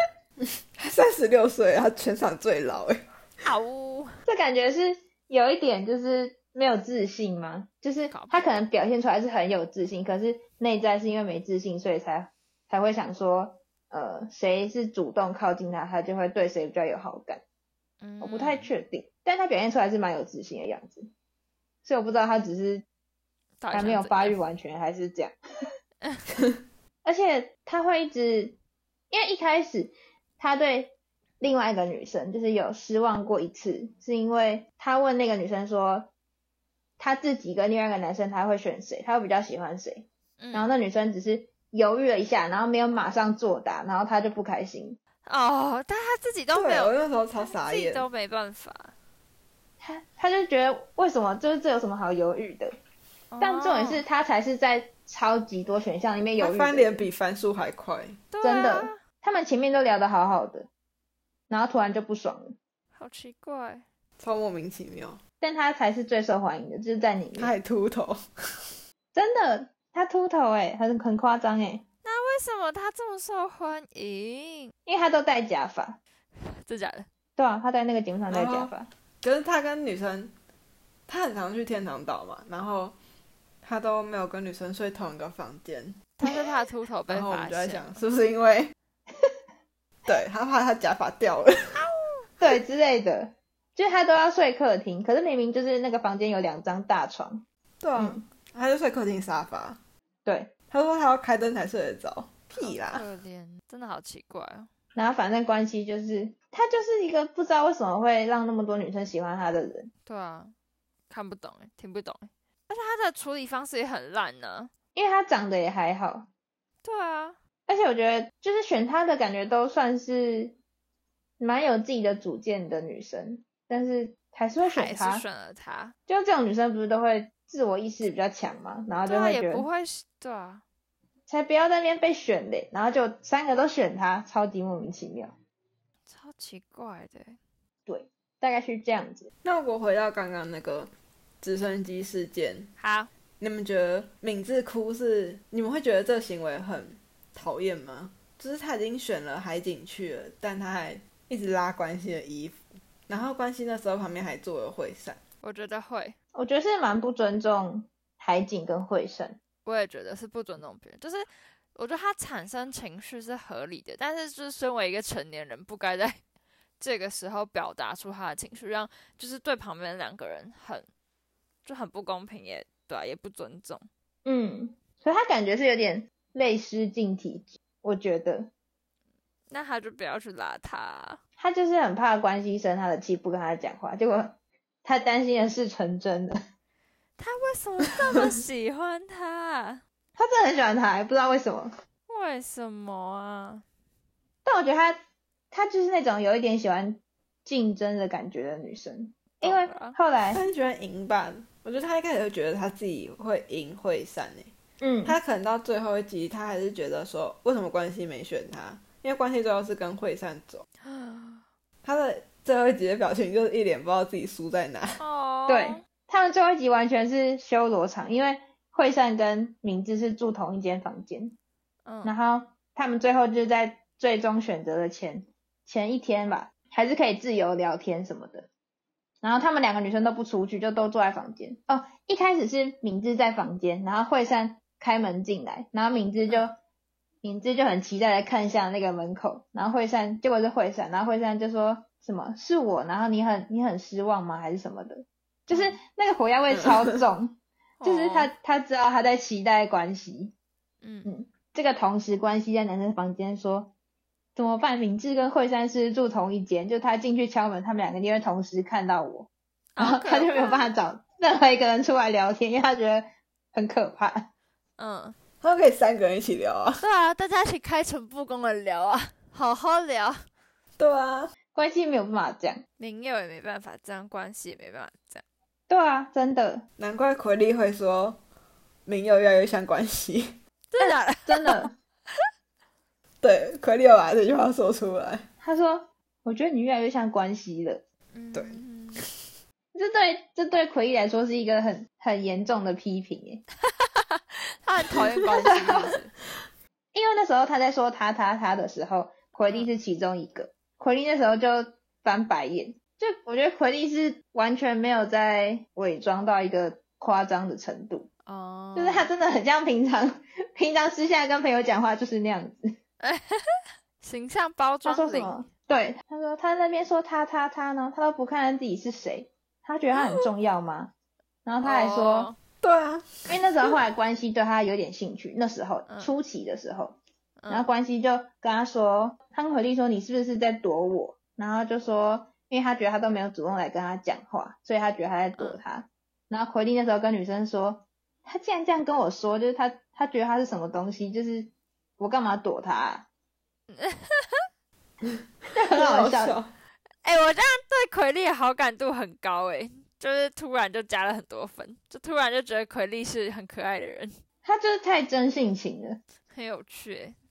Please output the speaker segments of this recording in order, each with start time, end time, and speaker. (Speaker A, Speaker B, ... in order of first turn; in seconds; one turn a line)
Speaker A: 0.4-3.0
Speaker B: 3.4-4.2
Speaker C: 4.2-17.4
Speaker B: 8.1-8.6
Speaker B: 18.0-18.7
Speaker C: 18.2-21.1
Speaker C: 21.8-22.8
Speaker B: 23.6-24.4
Speaker C: 23.7-25.3
Speaker C: 27.0-28.6
Speaker C: 29.1-36.1
Speaker C: 37.0-45.0
Speaker B: 40.4-40.7
Speaker B: 45.2-48.9
Speaker A: 46.5-48.1
Speaker C: 49.8-52.7
Speaker B: 53.3-54.0
Speaker C: 53.4-57.1
Speaker A: 56.4-58.2
Speaker B: 58.3-59.0
Speaker C: 58.4-60.7
Speaker C: 61.5-62.5
Speaker B: 62.9-63.8
Speaker A: 64.2-65.2
Speaker C: 65.4-67.5
Speaker A: 67.4-68.8
Speaker C: 69.1-71.8
Speaker B: 72.0-74.7
Speaker C: 74.8-76.0
Speaker B: 76.4-77.1
Speaker C: 77.4-78.9
Speaker A: 78.3-78.7
Speaker A: 79.2-80.3
Speaker A: 81.1-83.0
Speaker A: 83.6-86.1
Speaker B: 86.2-88.0
Speaker A: 87.1-88.7
Speaker A: 90.1-91.8
Speaker B: 91.8-92.3
Speaker C: 92.4-97.4
Speaker A: 97.8-99.8
Speaker C: 98.0-98.2
Speaker C: 100.2-100.5
Speaker A: 100.7-103.0
Speaker B: 102.6-104.7
Speaker C: 105.0-109.9
Speaker B: 110.0-110.5
Speaker B: 111.1-114.7
Speaker C: 114.9-116.3
Speaker B: 116.8-117.4
Speaker C: 117.7-120.5
Speaker C: 121.4-125.2
Speaker B: 124.6-125.9
Speaker C: 126.1-129.6
Speaker B: 129.1-130.6
Speaker C: 131.3-135.3
Speaker B: 136.1-137.4
Speaker C: 137.9-139.3
Speaker A: 139.4-142.7
Speaker B: 142.8-143.1
Speaker A: 143.4-155.2
Speaker B: 155.4-156.2
Speaker C: 156.3-159.4
Speaker B: 159.7-166.2
Speaker B: 166.8-170.9
Speaker B: 171.6-173.9
Speaker C: 174.2-178.5
Speaker B: 179.5-181.2
Speaker C: 181.4-186.4
Speaker B: 187.2-189.8
Speaker C: 190.2-191.7
Speaker B: 192.1-193.6
Speaker C: 194.4-195.0
Speaker C: 195.5-200.4
Speaker B: 199.4-199.9
Speaker A: 200.3-204.5
Speaker C: 204.8-205.2
Speaker A: 205.0-210.6
Speaker B: 210.8-211.4
Speaker A: 211.8-215.0
Speaker B: 215.0-215.8
Speaker C: 215.5-221.3
Speaker B: 221.8-222.1
Speaker C: 222.0-228.5
Speaker C: 229.2-236.5
Speaker C: 237.2-250.3
Speaker B: 245.5-245.8
Speaker A: 246.5-246.9
Speaker B: 247.8-248.3
Speaker B: 250.8-251.1
Speaker C: 251.0-253.7
Speaker C: 254.3-264.3
Speaker B: 259.7-260.7
Speaker B: 264.8-265.1
Speaker A: 265.4-266.8
Speaker B: 266.8-270.2
Speaker A: 270.8-271.3
Speaker C: 271.5-272.6
Speaker B: 272.8-275.2
Speaker C: 275.7-276.6
Speaker A: 276.8-278.2
Speaker A: 278.9-280.4
Speaker B: 280.7-282.2
Speaker C: 280.8-281.7
Speaker A: 283.2-285.3
Speaker C: 285.4-287.8
Speaker B: 288.1-289.1
Speaker A: 288.3-288.6
Speaker C: 289.7-293.4
Speaker B: 293.6-296.1
Speaker A: 294.9-295.9
Speaker C: 295.4-295.9
Speaker C: 296.9-308.1
Speaker B: 308.2-309.1
Speaker C: 308.7-312.6
Speaker B: 313.0-315.4
Speaker C: 314.8-320.9
Speaker C: 321.4-322.3
Speaker B: 321.6-322.4
Speaker A: 322.6-323.3
Speaker C: 323.3-327.0
Speaker B: 327.4-327.7
Speaker C: 327.5-343.1
Speaker B: 343.7-344.4
Speaker C: 345.5-346.4
Speaker A: 345.6-346.5
Speaker B: 347.0-354.1
Speaker C: 354.4-356.0
Speaker B: 356.3-357.2